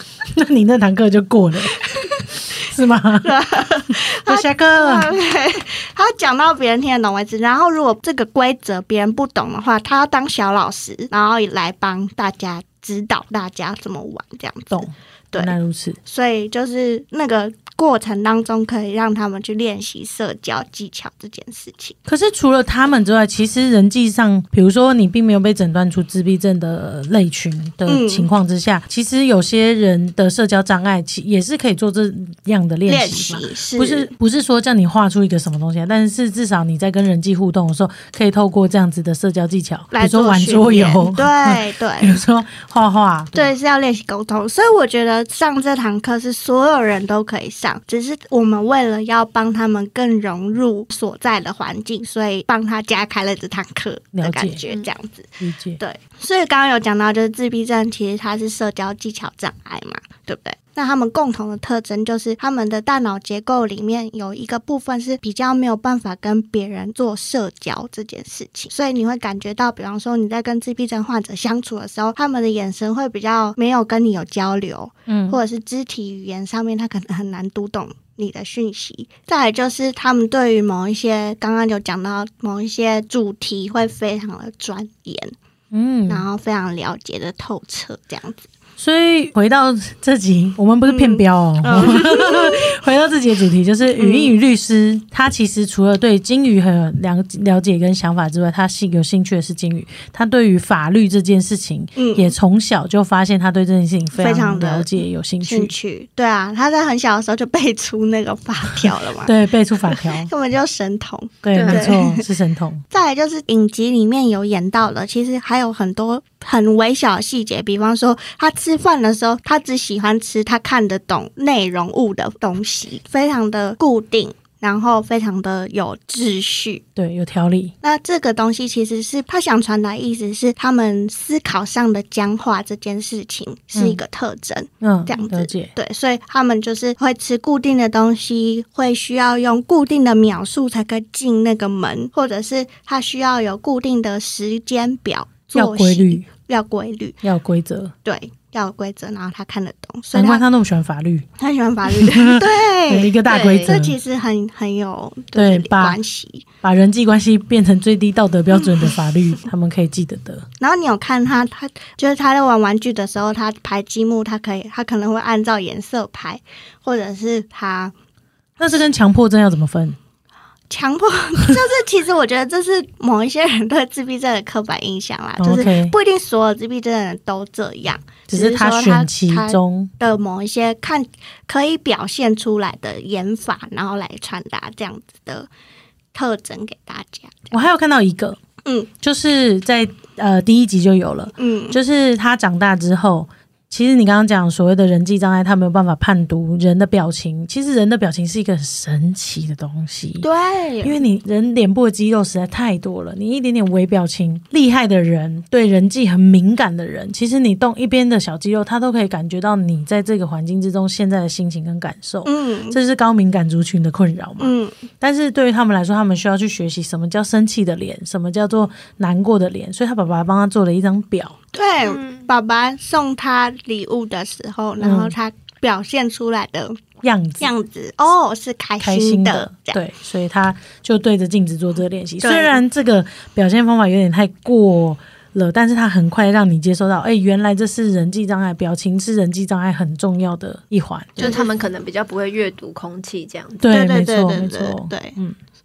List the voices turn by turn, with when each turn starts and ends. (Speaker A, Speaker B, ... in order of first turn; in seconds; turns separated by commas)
Speaker A: 0.3-1.8, Speaker B: 1.8-2.6, Speaker A: 2.5-3.3, Speaker B: 3.2-15.5, Speaker A: 3.9-5.1, Speaker A: 14.7-16.0, Speaker B: 16.1-22.0, Speaker A: 22.1-43.5, Speaker B: 27.9-28.3, Speaker B: 32.9-34.1, Speaker B: 39.9-42.2, Speaker B: 43.3-85.3, Speaker A: 54.1-54.6, Speaker A: 55.4-55.8, Speaker A: 75.1-75.4, Speaker A: 85.7-86.2, Speaker B: 86.1-88.5, Speaker A: 88.8-105.7, Speaker B: 90.8-92.7, Speaker B: 94.0-94.3, Speaker B: 102.0-102.3, Speaker B: 104.2-104.9, Speaker B: 105.4-109.3, Speaker A: 109.2-110.3, Speaker B: 109.9-112.2, Speaker A: 111.4-112.8, Speaker C: 111.5-111.9, Speaker B: 112.9-126.8, Speaker A: 127.0-127.7, Speaker B: 127.8-147.2, Speaker A: 133.7-134.0, Speaker A: 134.8-135.7, Speaker A: 145.5-146.2, Speaker A: 147.2-147.9, Speaker B: 148.0-150.4, Speaker A: 150.1-151.3, Speaker B: 151.4-156.4, Speaker A: 151.9-154.0, Speaker C: 153.2-153.8, Speaker A: 155.3-156.0, Speaker A: 156.6-160.4, Speaker B: 160.6-167.9, Speaker A: 168.6-170.0, Speaker B: 170.7-185.5, Speaker A: 175.4-175.9, Speaker A: 178.3-179.9, Speaker B: 186.1-187.6, Speaker A: 187.5-188.4, Speaker A: 189.0-200.3, Speaker B: 191.4-191.8, Speaker B: 200.2-201.0, Speaker A: 200.8-221.4, Speaker B: 212.2-212.8, Speaker B: 214.4-214.7, Speaker B: 221.5-226.8, Speaker C: 221.8-222.3, Speaker A: 224.8-225.1, Speaker A: 227.0-227.5, Speaker B: 227.4-229.8, Speaker A: 228.8-241.4, Speaker B: 232.2-232.6, Speaker B: 241.2-241.5, Speaker C: 241.2-243.7, Speaker A: 243.6-245.3, Speaker B: 243.7-245.2